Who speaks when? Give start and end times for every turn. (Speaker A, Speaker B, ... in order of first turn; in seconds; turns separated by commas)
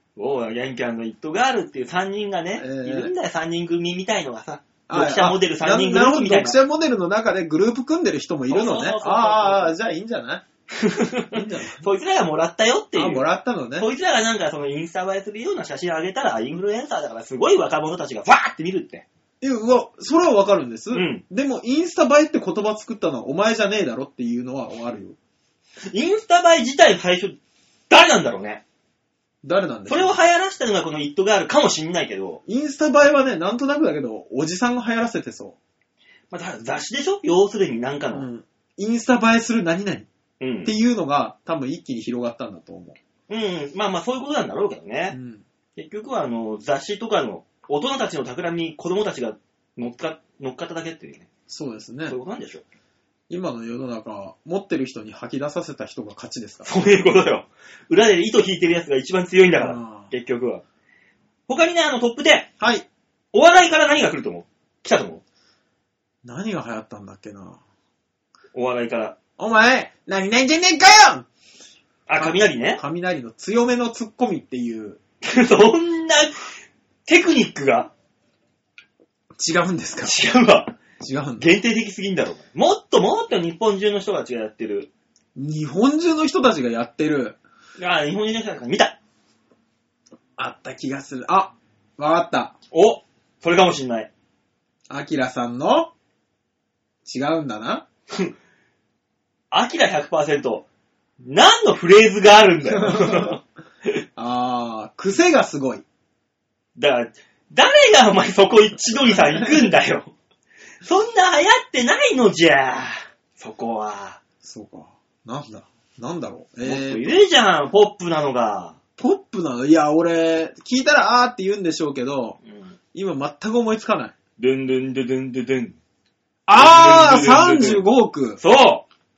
Speaker A: 0.2-6.6, Speaker B: 2.6-3.1, Speaker B: 4.9-10.4, Speaker A: 8.5-9.8, Speaker A: 10.8-19.1, Speaker B: 11.3-11.9, Speaker B: 12.9-13.9, Speaker B: 19.4-25.2, Speaker A: 20.9-21.2, Speaker A: 25.9-27.4, Speaker A: 27.9-28.6, Speaker B: 29.4-30.2, Speaker A: 29.9-32.4, Speaker B: 32.5-35.6, Speaker A: 36.3-38.3, Speaker B: 38.1-40.1, Speaker A: 40.4-40.7, Speaker B: 40.6-43.0, Speaker A: 43.3-45.2, Speaker B: 45.1-45.4, Speaker A: 45.8-51.3, Speaker B: 51.5-52.2, Speaker A: 52.1-52.6, Speaker B: 53.3-56.7, Speaker A: 56.6-60.6, Speaker B: 59.6-60.1, Speaker A: 61.5-62.5, Speaker B: 62.6-62.9, Speaker A: 63.3-65.2, Speaker B: 66.2-67.6, Speaker A: 68.5-69.2, Speaker B: 69.4-71.3, Speaker A: 72.1-72.8, Speaker B: 72.2-75.0, Speaker A: 75.2-76.4, Speaker A: 77.1-77.9, Speaker B: 79.4-80.2, Speaker A: 80.0-80.8, Speaker B: 81.0-81.5, Speaker A: 81.4-84.9, Speaker B: 85.3-87.4, Speaker A: 87.8-89.0, Speaker B: 90.4-92.5, Speaker A: 92.7-94.1, Speaker B: 94.9-95.9, Speaker B: 97.0-97.8, Speaker A: 99.5-100.7, Speaker A: 101.2-103.4, Speaker B: 102.7-103.4, Speaker B: 104.2-105.8, Speaker A: 106.8-110.1, Speaker A: 110.8-114.2, Speaker B: 114.4-117.2, Speaker A: 116.6-118.8, Speaker B: 119.0-122.4, Speaker A: 122.5-122.8, Speaker B: 122.9-124.2, Speaker A: 124.4-125.8, Speaker B: 126.5-128.4, Speaker A: 126.5-127.9, Speaker A: 128.4-128.9